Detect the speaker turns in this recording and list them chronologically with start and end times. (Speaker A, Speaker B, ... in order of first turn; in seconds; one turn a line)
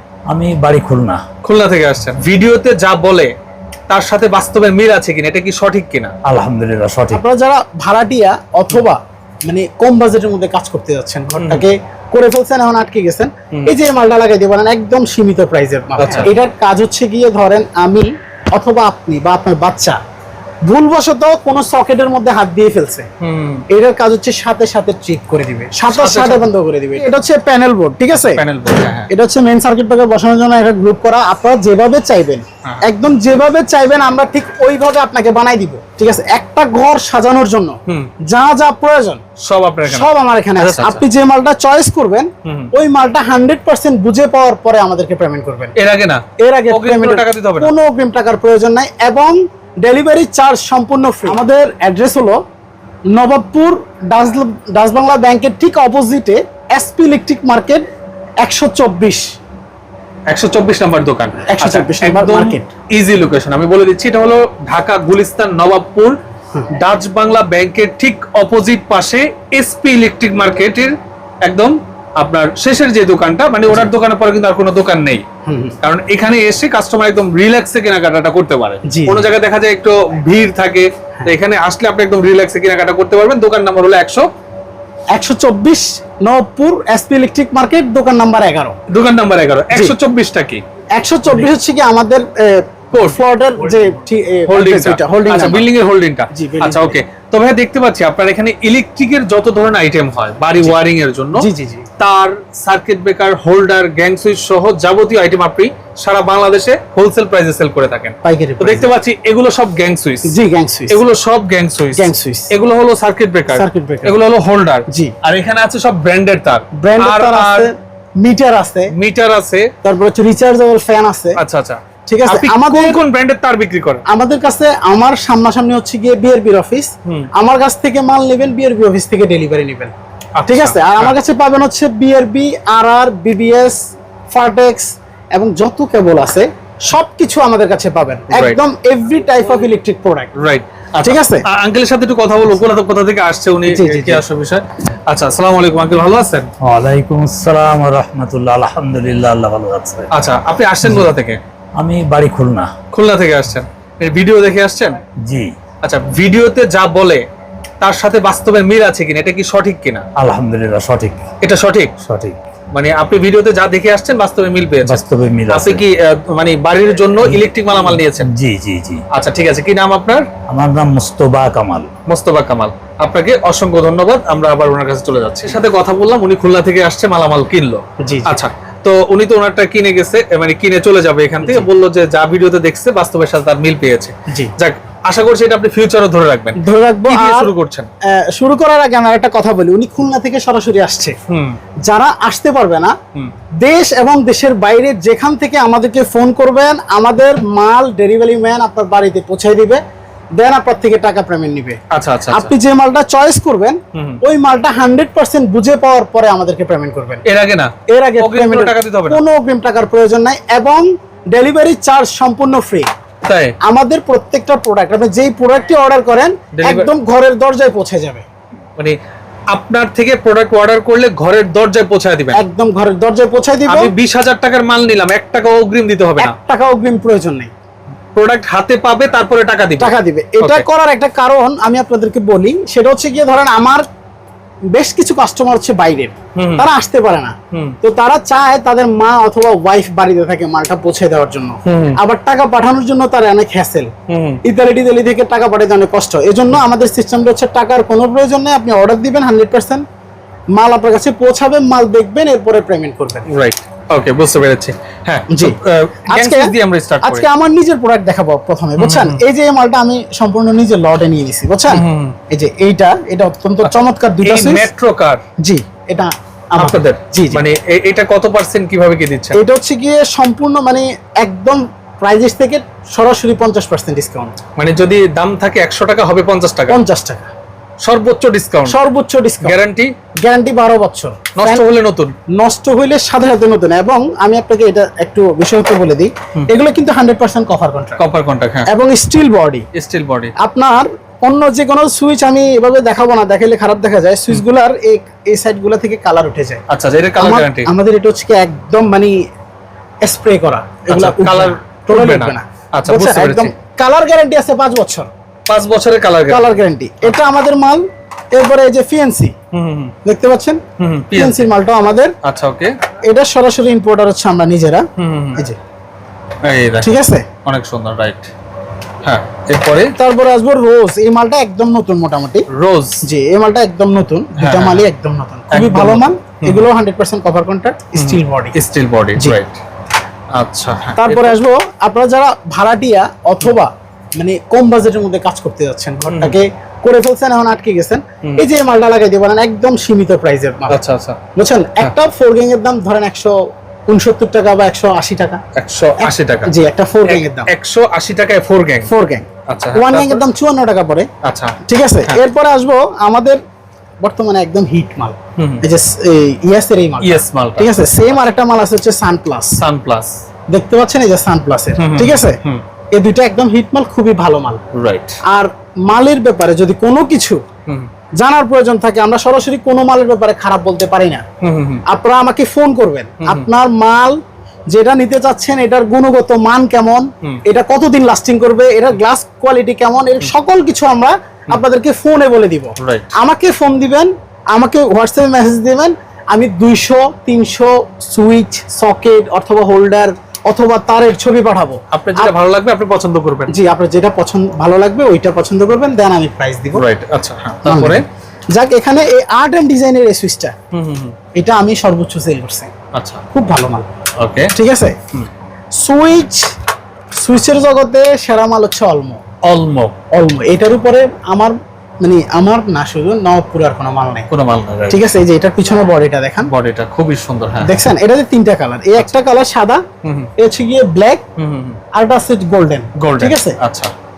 Speaker A: 0.3-1.2
Speaker B: 1.4-3.3
Speaker B: 3.9-6.1
Speaker A: 6.2-7.2
Speaker C: 7.1-20.0
Speaker B: 11.4-11.7
Speaker B: 16.0-16.3
Speaker C: 20.7-23.1
Speaker B: 23.2-23.6
Speaker C: 23.7-28.4
Speaker B: 25.9-26.5
Speaker B: 28.1-29.1
Speaker C: 29.1-39.2
Speaker B: 39.5-41.0
Speaker C: 39.9-45.7
Speaker B: 42.5-42.7
Speaker B: 45.8-47.7
Speaker C: 46.4-52.4
Speaker C: 53.1-57.8
Speaker C: 58.4-59.2
Speaker B: 60.3-66.2
Speaker C: 61.4-62.7
Speaker B: 66.7-70.9
Speaker B: 71.4-75.2
Speaker C: 75.4-75.8
Speaker B: 75.8-84.2
Speaker C: 78.9-79.3
Speaker C: 85.1-88.8
Speaker B: 88.9-90.6
Speaker C: 91.0-95.7
Speaker B: 92.9-93.9
Speaker B: 94.5-101.5
Speaker C: 96.3-97.0
Speaker C: 101.3-101.9
Speaker B: 102.0-110.3
Speaker C: 108.2-108.9
Speaker C: 110.2-111.0
Speaker B: 110.9-117.7
Speaker C: 111.9-112.5
Speaker C: 113.5-114.2
Speaker C: 116.8-118.9
Speaker B: 118.9-119.7
Speaker C: 119.8-121.4
Speaker B: 121.4-124.0
Speaker C: 122.1-123.0
Speaker C: 124.1-129.9
Speaker B: 130.4-131.2
Speaker C: 130.5-133.8
Speaker C: 134.3-140.3
Speaker B: 138.3-138.6
Speaker B: 140.4-146.5
Speaker C: 141.0-141.4
Speaker C: 143.7-144.2
Speaker A: 146.6-150.1
Speaker B: 150.1-151.4
Speaker A: 151.8-152.7
Speaker B: 152.9-155.0
Speaker A: 155.2-155.5
Speaker B: 155.8-157.2
Speaker B: 157.8-160.1
Speaker A: 160.2-161.3
Speaker B: 161.4-162.0
Speaker A: 162.0-162.4
Speaker B: 162.7-168.3
Speaker A: 164.8-165.8
Speaker A: 167.2-169.0
Speaker B: 169.1-170.3
Speaker A: 170.5-171.9
Speaker B: 172.1-187.9
Speaker C: 178.0-178.3
Speaker C: 181.4-181.7
Speaker C: 186.6-187.5
Speaker C: 188.1-191.2
Speaker B: 191.3-191.6
Speaker C: 191.8-192.9
Speaker C: 193.6-199.8
Speaker C: 200.4-201.8
Speaker B: 201.9-202.5
Speaker C: 202.3-207.2
Speaker B: 203.9-204.2
Speaker B: 207.2-209.2
Speaker C: 207.9-212.9
Speaker B: 213.2-213.5
Speaker C: 213.6-218.2
Speaker B: 216.6-216.9
Speaker B: 219.5-222.4
Speaker C: 222.3-223.9
Speaker B: 223.7-226.3
Speaker C: 226.2-227.5
Speaker B: 228.2-230.6
Speaker C: 229.8-233.8
Speaker C: 234.7-243.9
Speaker B: 236.3-236.7
Speaker B: 237.5-237.8
Speaker B: 241.7-242.0
Speaker B: 244.1-244.4
Speaker C: 244.4-249.8
Speaker C: 250.6-253.3
Speaker B: 253.3-257.2
Speaker C: 255.3-255.6
Speaker C: 256.1-264.7
Speaker B: 258.8-259.2
Speaker B: 261.7-262.2
Speaker B: 263.6-265.2
Speaker C: 265.4-267.4
Speaker B: 266.6-269.4
Speaker C: 269.3-274.3
Speaker B: 274.6-276.8
Speaker C: 276.7-277.3
Speaker B: 277.8-278.8
Speaker C: 278.7-279.6
Speaker B: 279.4-279.9
Speaker C: 280.2-281.6
Speaker B: 281.4-282.1
Speaker C: 282.4-288.0
Speaker B: 288.0-288.7
Speaker C: 288.7-289.6
Speaker B: 289.7-290.3
Speaker C: 290.4-296.6
Speaker B: 296.7-297.7
Speaker C: 297.2-299.2
Speaker C: 300.0-305.1
Speaker B: 300.9-303.5
Speaker B: 305.5-307.1
Speaker C: 306.3-309.4
Speaker B: 309.5-309.9
Speaker C: 310.0-310.6
Speaker B: 310.8-311.5
Speaker C: 311.1-312.1
Speaker B: 312.2-312.7
Speaker C: 313.1-315.6
Speaker B: 315.0-315.4
Speaker B: 316.4-316.9
Speaker C: 316.8-317.3
Speaker B: 317.4-318.3
Speaker B: 319.0-319.9
Speaker C: 320.0-322.4
Speaker B: 322.5-323.0
Speaker C: 323.0-328.5
Speaker B: 324.4-324.9
Speaker B: 325.5-326.7
Speaker B: 328.0-329.6
Speaker B: 330.3-331.4
Speaker C: 331.0-340.8
Speaker B: 336.1-336.4
Speaker B: 340.7-341.2
Speaker C: 341.4-343.4
Speaker C: 343.9-345.4
Speaker B: 345.6-346.5
Speaker C: 346.0-347.5
Speaker B: 347.1-348.9
Speaker C: 348.9-351.1
Speaker B: 349.5-350.2
Speaker B: 351.2-352.2
Speaker C: 351.6-353.4
Speaker C: 354.0-359.6
Speaker B: 355.4-355.6
Speaker B: 357.0-358.2
Speaker B: 359.6-360.1
Speaker C: 360.5-362.4
Speaker B: 361.8-362.6
Speaker C: 362.9-364.6
Speaker B: 364.7-365.2
Speaker C: 365.2-367.4
Speaker C: 368.2-371.2
Speaker B: 371.4-371.8
Speaker C: 371.9-374.2
Speaker B: 373.2-373.5
Speaker C: 374.7-392.3
Speaker B: 382.8-383.1
Speaker B: 391.9-393.5
Speaker C: 393.5-396.8
Speaker B: 396.8-398.0
Speaker C: 397.6-400.5
Speaker B: 400.7-401.1
Speaker C: 401.4-402.7
Speaker B: 402.9-403.2
Speaker C: 403.3-403.9
Speaker B: 404.2-404.5
Speaker C: 404.5-405.0
Speaker C: 405.8-406.5
Speaker C: 407.2-409.2
Speaker B: 409.4-410.0
Speaker C: 410.1-414.3
Speaker B: 414.3-415.1
Speaker C: 414.9-416.5
Speaker B: 416.4-417.8
Speaker C: 417.6-419.8
Speaker B: 420.0-420.3
Speaker C: 420.4-421.2
Speaker B: 421.4-421.8
Speaker C: 421.9-423.6
Speaker B: 423.0-423.9